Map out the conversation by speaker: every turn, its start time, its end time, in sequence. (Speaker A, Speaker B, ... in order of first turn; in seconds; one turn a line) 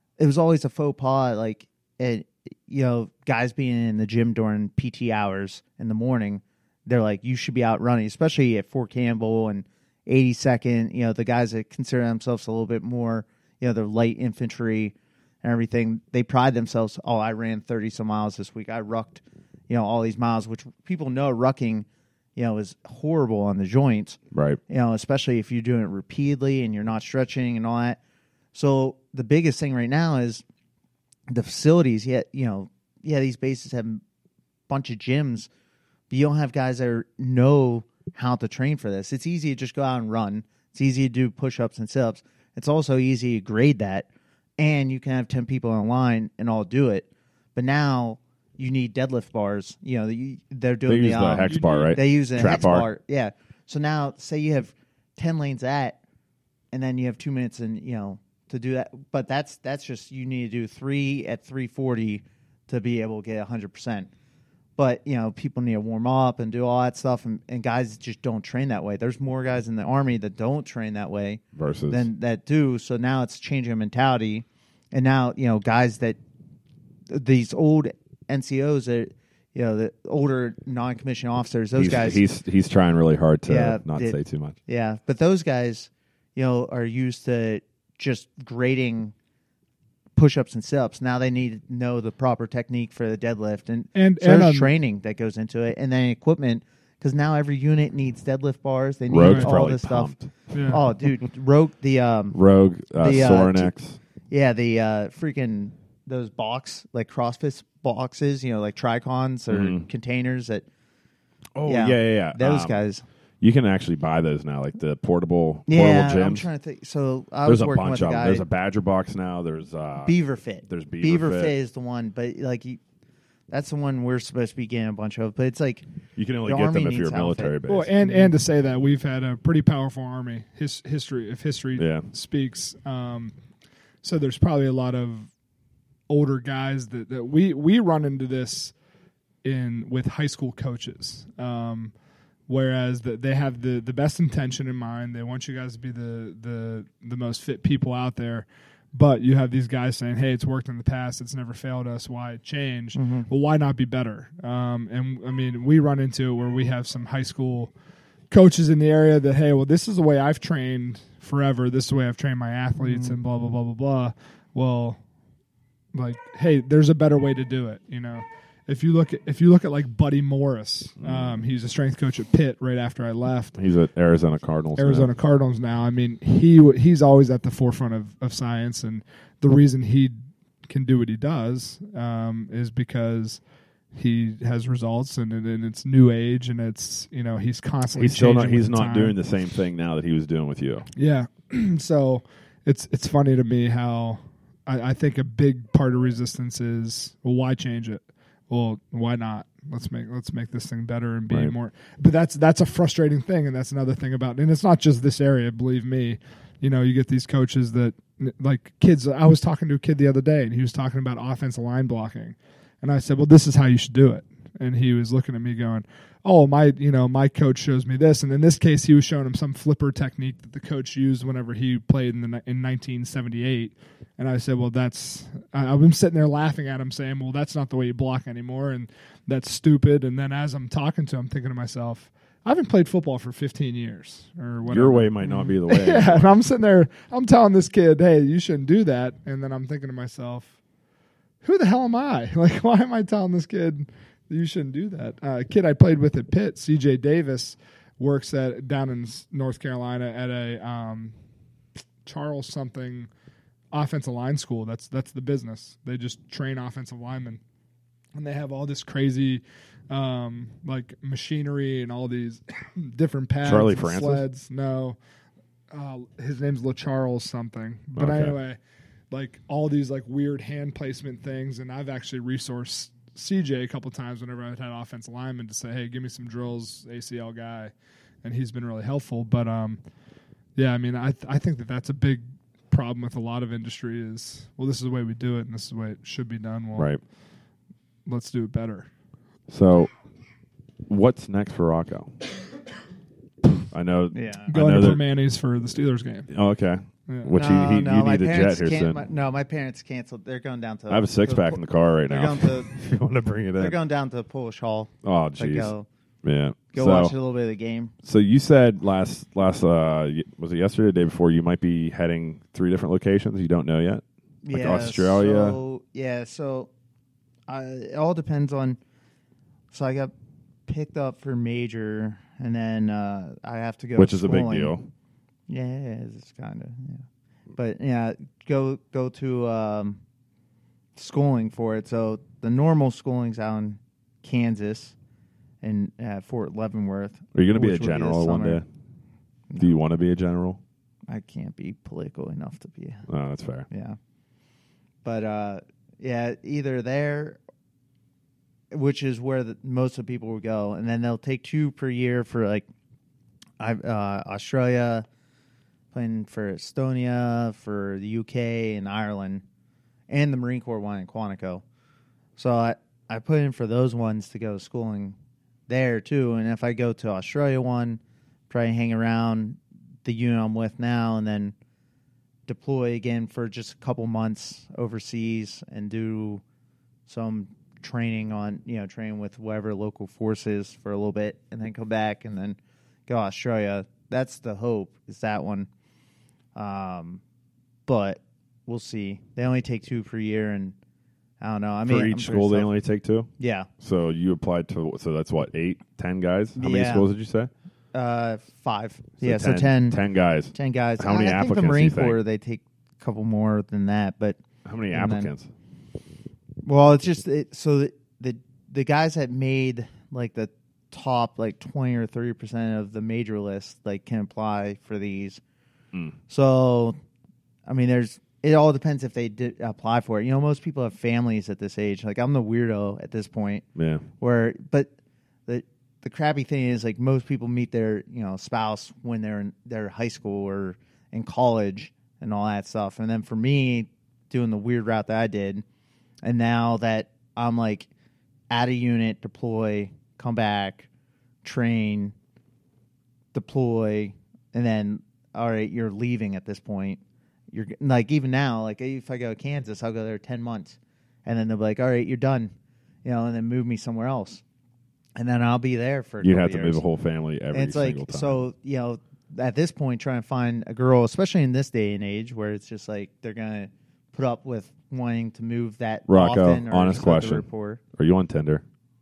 Speaker A: 0.2-28.0
Speaker B: 24.3-24.6
Speaker A: 28.5-30.4
Speaker A: 31.3-34.0
Speaker A: 34.7-35.5
Speaker A: 36.1-44.1
Speaker A: 44.6-56.0
Speaker B: 50.9-52.9
Speaker C: 51.4-52.0
Speaker A: 56.7-64.1
Speaker A: 64.8-76.2
Speaker B: 71.5-72.1
Speaker A: 77.1-82.2
Speaker B: 81.7-84.6
Speaker A: 83.5-89.1
Speaker A: 90.2-100.1
Speaker C: 93.9-94.7
Speaker B: 99.1-101.1
Speaker C: 99.1-99.6
Speaker C: 100.5-100.8
Speaker A: 100.7-102.4
Speaker B: 102.3-104.0
Speaker A: 103.0-103.7
Speaker A: 104.3-110.7
Speaker B: 109.5-109.9
Speaker B: 111.5-112.8
Speaker A: 111.7-113.0
Speaker B: 113.4-116.5
Speaker A: 115.7-118.5
Speaker B: 117.5-121.5
Speaker A: 120.0-122.8
Speaker A: 123.5-125.9
Speaker B: 126.2-127.9
Speaker A: 126.5-128.3
Speaker C: 127.7-133.3
Speaker B: 131.8-132.1
Speaker C: 134.0-135.3
Speaker C: 136.1-138.8
Speaker C: 139.4-141.9
Speaker C: 142.5-157.7
Speaker A: 152.9-153.3
Speaker C: 158.3-165.0
Speaker A: 162.8-163.1
Speaker C: 165.9-173.6
Speaker B: 171.0-171.4
Speaker B: 173.6-175.1
Speaker C: 174.8-183.4
Speaker C: 183.9-189.2
Speaker B: 188.0-190.9
Speaker C: 191.0-240.5
Speaker B: 201.3-201.6
Speaker B: 234.7-236.3
Speaker C: 241.4-251.2
Speaker C: 252.1-253.1
Speaker C: 253.7-257.4
Speaker C: 258.1-265.0
Speaker B: 263.4-264.3
Speaker C: 265.7-268.6
Speaker B: 267.9-268.4
Speaker C: 269.1-279.8
Speaker C: 280.6-287.0
Speaker C: 288.1-288.9
Speaker B: 289.5-289.9
Speaker B: 290.9-292.1
Speaker B: 293.7-295.0
Speaker A: 294.1-294.5
Speaker C: 294.5-296.3
Speaker B: 296.3-299.0
Speaker C: 297.1-297.3
Speaker A: 297.3-302.8
Speaker B: 300.9-303.8
Speaker A: 303.6-305.9
Speaker B: 305.0-305.7
Speaker B: 306.2-307.1
Speaker A: 306.7-307.9
Speaker B: 308.0-315.6
Speaker A: 314.4-316.7
Speaker A: 317.5-318.8
Speaker A: 319.7-320.1
Speaker A: 320.7-324.8
Speaker B: 324.0-324.9
Speaker A: 325.5-330.0
Speaker A: 331.0-334.9
Speaker A: 335.6-338.6
Speaker B: 337.3-338.7
Speaker B: 339.6-340.6
Speaker A: 341.1-343.1
Speaker B: 343.1-343.7
Speaker A: 343.7-344.0
Speaker A: 345.0-347.4
Speaker A: 348.7-352.7
Speaker A: 353.6-355.1
Speaker A: 355.9-359.4
Speaker A: 360.1-361.6
Speaker A: 362.4-371.6
Speaker A: 372.5-376.4
Speaker A: 377.1-385.7
Speaker A: 386.6-387.2
Speaker A: 387.9-390.8
Speaker A: 391.4-392.7
Speaker B: 391.8-393.3
Speaker A: 393.4-393.7
Speaker B: 393.8-397.5
Speaker A: 396.6-397.1
Speaker A: 397.9-400.0
Speaker B: 399.2-402.2
Speaker A: 400.5-405.3
Speaker B: 404.6-405.5
Speaker A: 406.6-415.4
Speaker A: 416.3-417.0
Speaker A: 417.7-423.7
Speaker B: 423.8-424.0
Speaker A: 424.2-424.9
Speaker A: 425.5-435.6
Speaker A: 436.2-437.9
Speaker A: 438.5-440.9
Speaker A: 441.4-442.1
Speaker A: 443.3-452.5
Speaker A: 453.0-454.4
Speaker A: 455.2-456.8
Speaker B: 456.2-458.4
Speaker A: 457.5-467.8
Speaker B: 466.1-468.6